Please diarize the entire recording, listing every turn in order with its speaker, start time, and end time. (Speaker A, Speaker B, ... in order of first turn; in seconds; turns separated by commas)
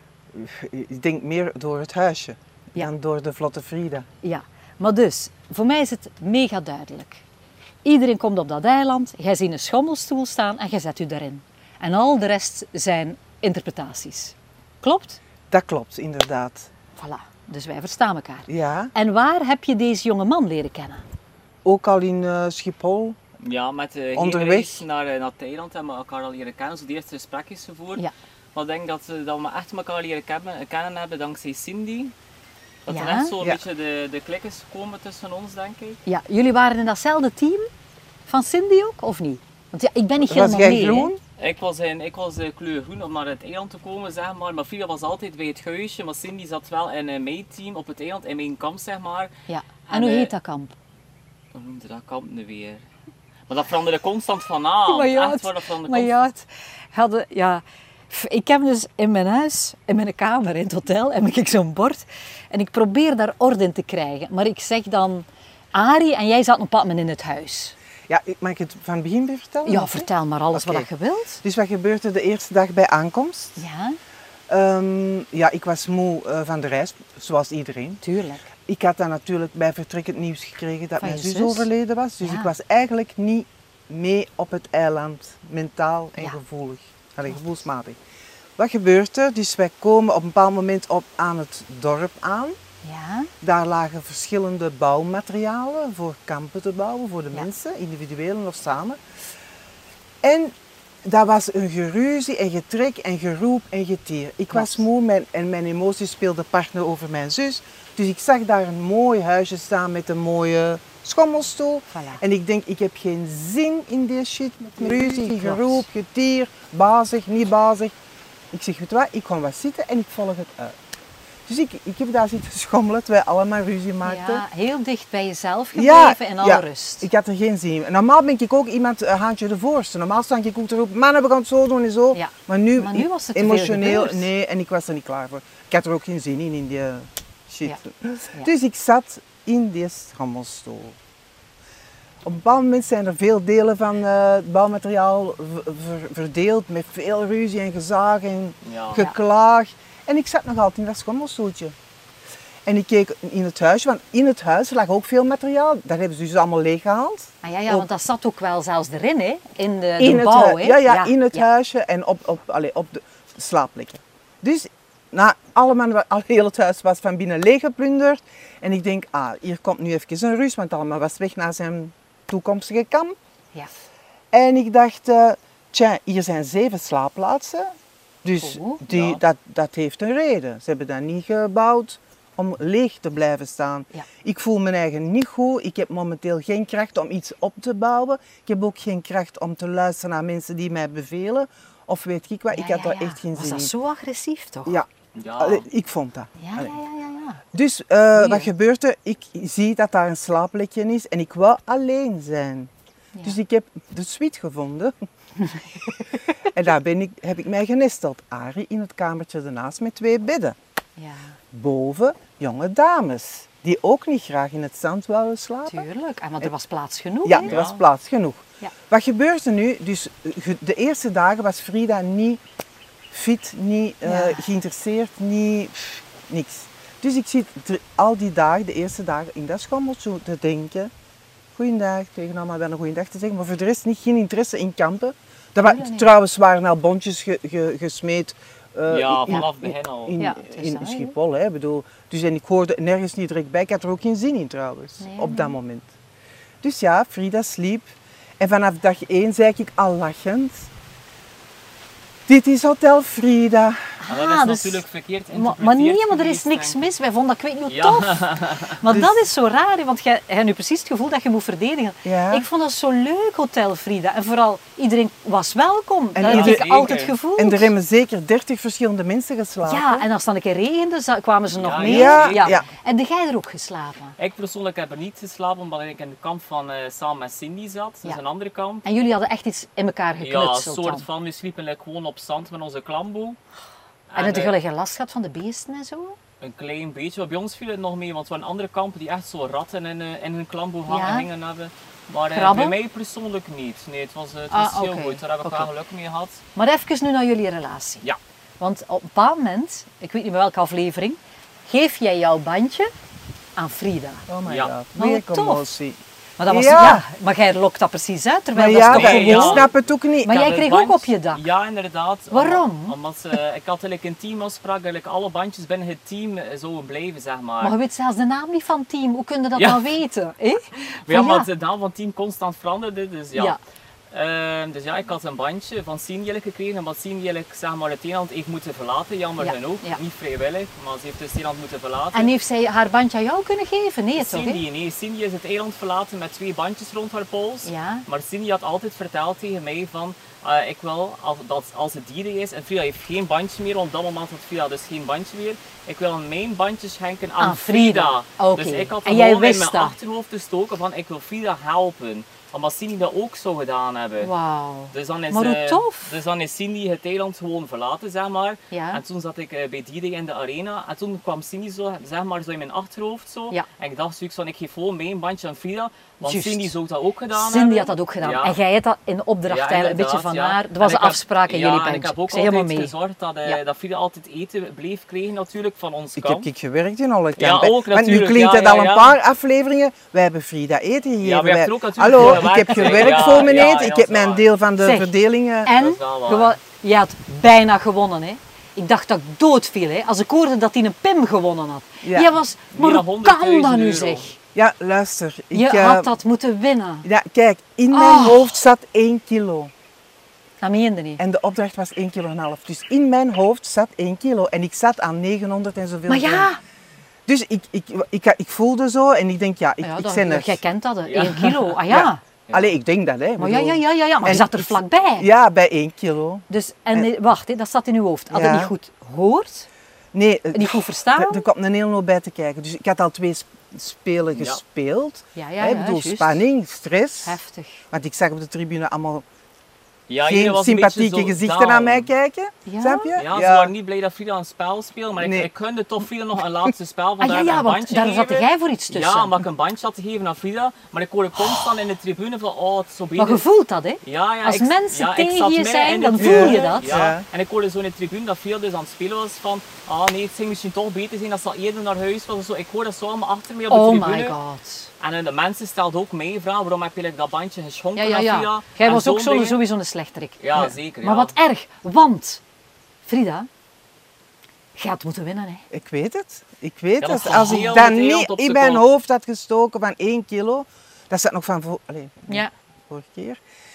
Speaker A: 0.3-4.0, Speaker B: 4.2-7.2, Speaker B: 7.8-15.2, Speaker A: 15.5-16.7, Speaker B: 16.9-21.0, Speaker A: 18.5-18.9, Speaker A: 21.6-23.2, Speaker C: 23.4-32.1, Speaker A: 24.1-24.8, Speaker C: 32.9-36.0, Speaker B: 32.9-33.3, Speaker B: 36.0-37.7, Speaker B: 38.3-41.1, Speaker A: 40.2-41.2, Speaker C: 41.4-49.3, Speaker B: 49.5-50.7, Speaker C: 49.9-50.3, Speaker C: 51.5-52.8, Speaker C: 53.5-56.1, Speaker B: 54.9-67.8, Speaker A: 68.1-70.9, Speaker B: 69.7-71.4, Speaker A: 71.4-73.6, Speaker B: 73.6-74.0, Speaker A: 74.5-78.0, Speaker B: 78.0-78.4, Speaker A: 78.7-88.0, Speaker B: 81.0-81.7, Speaker B: 82.2-82.5, Speaker A: 88.6-92.6, Speaker B: 92.8-93.3, Speaker A: 93.4-99.0, Speaker A: 100.2-100.5, Speaker A: 101.0-117.9, Speaker B: 104.5-104.8, Speaker B: 111.9-112.2, Speaker B: 114.8-115.8, Speaker A: 118.5-120.7, Speaker A: 121.5-124.4, Speaker B: 124.0-127.1, Speaker A: 125.7-141.0, Speaker B: 132.1-134.3, Speaker A: 142.2-151.7, Speaker C: 148.6-149.1, Speaker A: 152.7-157.9, Speaker B: 157.4-161.4, Speaker A: 160.0-173.2, Speaker A: 174.3-177.7, Speaker A: 178.2-193.7, Speaker B: 178.4-178.8, Speaker C: 178.9-179.2, Speaker B: 192.5-194.8, Speaker A: 194.7-196.8, Speaker C: 195.1-195.7, Speaker B: 196.4-197.4, Speaker A: 197.5-202.7, Speaker B: 198.2-198.5, Speaker A: 203.2-204.9, Speaker A: 206.5-210.6, Speaker B: 211.0-211.4, Speaker A: 211.5-215.9, Speaker B: 215.7-217.5, Speaker A: 217.2-222.4, Speaker C: 217.3-217.8, Speaker A: 223.1-230.9, Speaker B: 224.0-224.4, Speaker A: 231.6-245.9, Speaker B: 235.6-236.1, Speaker C: 238.9-240.2, Speaker B: 240.2-241.1, Speaker B: 245.0-245.6, Speaker A: 246.6-250.7, Speaker A: 252.3-253.9, Speaker B: 254.0-267.7, Speaker C: 254.1-256.9, Speaker C: 257.7-258.8, Speaker A: 258.9-259.2, Speaker A: 262.0-262.4, Speaker A: 266.1-270.1, Speaker C: 266.2-267.1, Speaker B: 269.6-274.1, Speaker C: 271.5-272.6, Speaker A: 271.8-272.6, Speaker C: 274.2-278.8, Speaker B: 278.8-281.1, Speaker C: 280.2-283.4, Speaker C: 284.1-284.5, Speaker B: 284.1-286.2, Speaker C: 286.4-296.4, Speaker B: 290.9-291.3, Speaker B: 292.3-292.8, Speaker B: 294.5-295.7, Speaker B: 296.5-298.0, Speaker B: 298.6-302.9, Speaker B: 303.6-304.2, Speaker A: 304.3-307.0, Speaker C: 304.4-304.7, Speaker B: 304.9-305.7, Speaker B: 306.4-309.7, Speaker A: 308.5-310.4, Speaker C: 308.8-309.7, Speaker B: 310.2-311.4, Speaker C: 310.2-317.8, Speaker B: 312.3-312.9, Speaker B: 317.6-321.5, Speaker C: 319.5-319.9, Speaker C: 321.0-323.6, Speaker B: 323.3-323.6, Speaker C: 324.1-332.3, Speaker B: 329.4-330.0, Speaker B: 332.1-334.6, Speaker C: 334.1-354.3, Speaker B: 337.6-338.0, Speaker B: 347.4-349.9, Speaker B: 354.2-356.1, Speaker C: 354.9-368.6, Speaker B: 358.7-359.0, Speaker B: 366.2-366.8, Speaker B: 367.3-372.9, Speaker C: 369.5-376.5, Speaker A: 376.2-385.7, Speaker C: 377.4-379.2, Speaker C: 381.2-384.5, Speaker B: 382.2-383.6, Speaker B: 384.8-385.1, Speaker B: 385.6-394.4, Speaker C: 385.7-386.5, Speaker A: 392.0-392.3, Speaker C: 392.7-394.2, Speaker A: 394.5-396.1, Speaker B: 395.5-397.1, Speaker A: 397.0-399.7, Speaker B: 397.9-398.5, Speaker B: 400.6-401.2, Speaker A: 401.2-406.5, Speaker B: 406.1-406.6, Speaker A: 407.2-410.6, Speaker B: 409.8-412.2, Speaker C: 411.0-411.8, Speaker A: 411.9-417.1, Speaker C: 412.5-412.7, Speaker B: 413.4-415.3, Speaker B: 416.5-419.7, Speaker A: 418.3-418.7, Speaker A: 420.1-427.4, Speaker B: 420.5-421.4, Speaker C: 424.4-424.6, Speaker B: 425.3-426.5, Speaker B: 427.2-427.8, Speaker A: 427.9-429.2, Speaker C: 430.1-432.1, Speaker A: 430.2-433.7, Speaker B: 432.6-433.1, Speaker C: 433.1-443.4, Speaker A: 435.2-435.5, Speaker B: 437.2-439.4, Speaker B: 443.2-446.9, Speaker C: 444.0-454.3, Speaker A: 446.2-447.2, Speaker B: 453.7-454.9, Speaker C: 455.0-459.6, Speaker B: 457.9-462.4, Speaker C: 460.4-461.3, Speaker B: 463.0-463.5, Speaker B: 464.8-465.6, Speaker A: 465.7-473.4, Speaker C: 467.0-468.8, Speaker B: 472.3-472.5